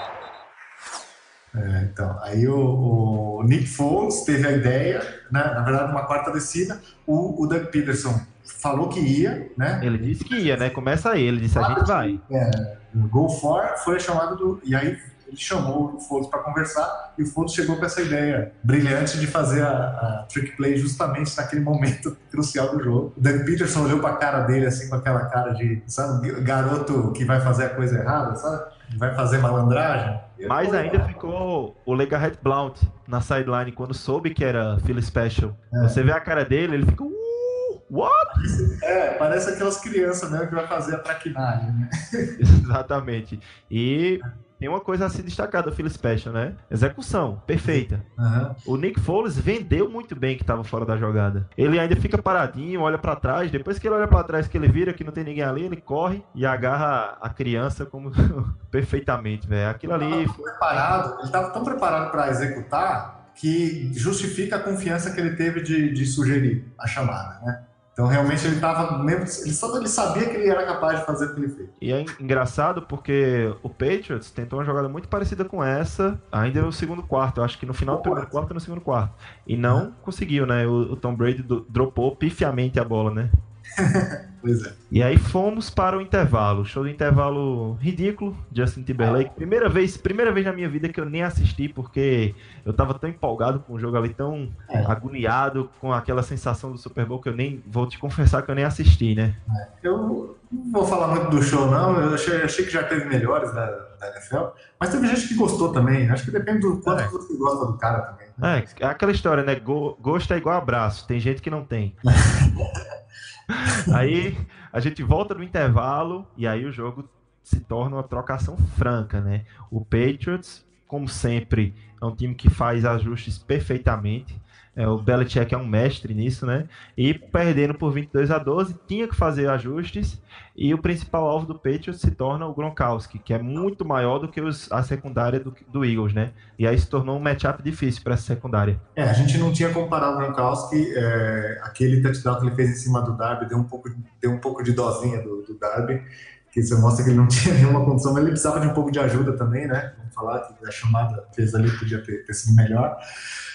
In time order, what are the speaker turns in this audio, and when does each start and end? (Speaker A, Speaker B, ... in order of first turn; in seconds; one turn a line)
Speaker A: 1.5-10.7
Speaker B: 9.8-12.2
Speaker A: 11.6-31.1
Speaker B: 30.4-38.5
Speaker A: 35.7-36.0
Speaker A: 38.3-42.3
Speaker B: 42.4-48.0
Speaker A: 47.6-48.6
Speaker B: 48.7-61.0
Speaker A: 60.0-71.7
Speaker B: 71.8-83.3
Speaker A: 77.9-78.3
Speaker A: 83.8-84.8
Speaker B: 84.9-99.4
Speaker A: 89.0-89.3
Speaker A: 94.7-94.9
Speaker A: 99.5-108.5
Speaker B: 106.8-107.1
Speaker B: 108.4-112.0
Speaker A: 112.1-112.8
Speaker B: 113.5-138.8
Speaker A: 113.7-114.1
Speaker A: 139.0-152.9